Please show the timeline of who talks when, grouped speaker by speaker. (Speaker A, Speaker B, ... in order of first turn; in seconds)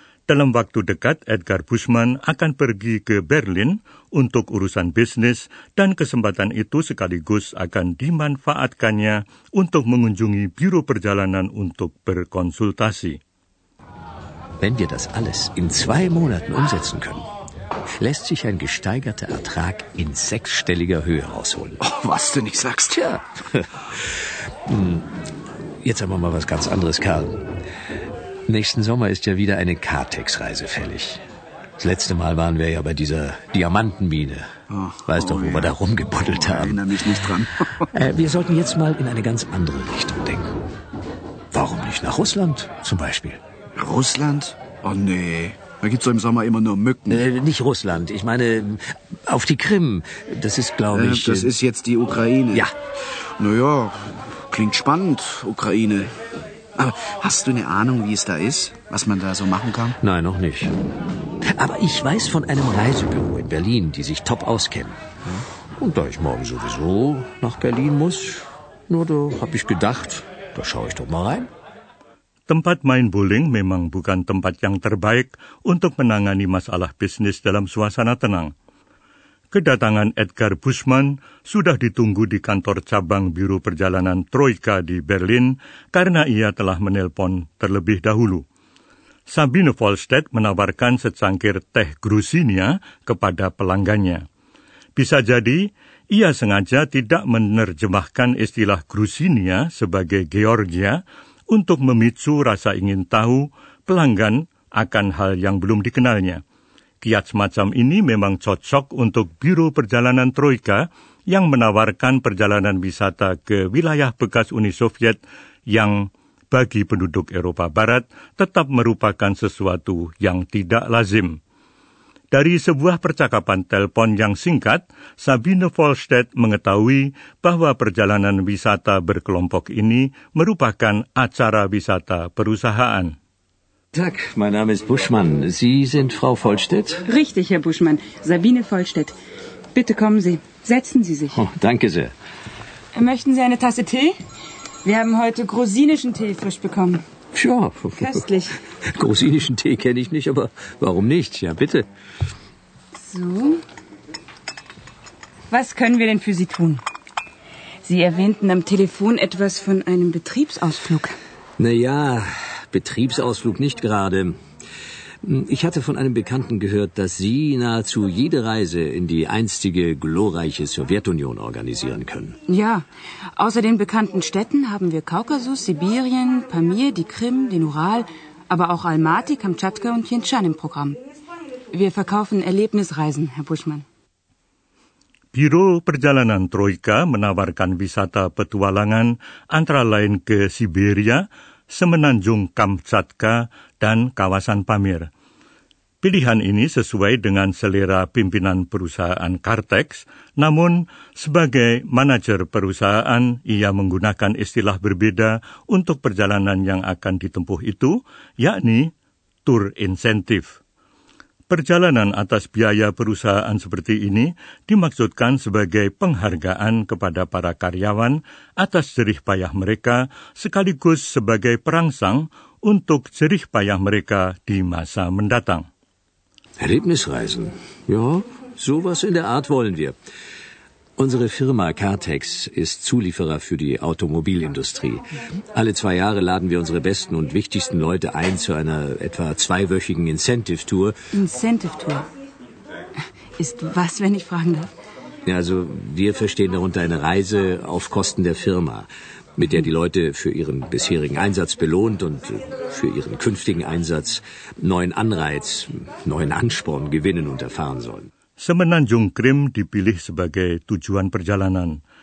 Speaker A: 0.3-13.2, 72.5-78.5, 79.5-88.5, 89.3-94.2, 95.0-106.4, 107.0-121.4, 122.3-133.2, 185.3-195.1, 196.0-208.9, 209.5-210.5, 211.5-225.7, 258.4-261.8
Speaker B: 14.6-17.3, 18.0-21.8, 23.0-25.1, 25.8-27.4, 28.5-31.2, 31.8-34.5, 35.1-36.9, 37.9-40.5, 41.5-43.4, 47.1-51.5, 60.0-60.8, 61.4-71.5, 133.9-137.1, 141.3-142.1, 147.3-148.2, 148.9-151.9, 161.6-164.4, 165.2-172.4, 226.6-230.0, 231.0-240.9, 245.3-258.1
Speaker C: 21.8-23.1, 34.7-35.7, 36.5-37.8, 43.8-47.2, 50.9-52.7, 53.2-56.1, 56.8-60.0
Speaker D: 137.1-139.2, 139.7-141.4, 142.9-144.2, 144.8-147.0, 148.0-148.6, 152.9-153.6, 155.5-156.8, 157.8-161.2, 172.5-181.0, 181.7-183.8, 241.1-242.1, 243.4-244.7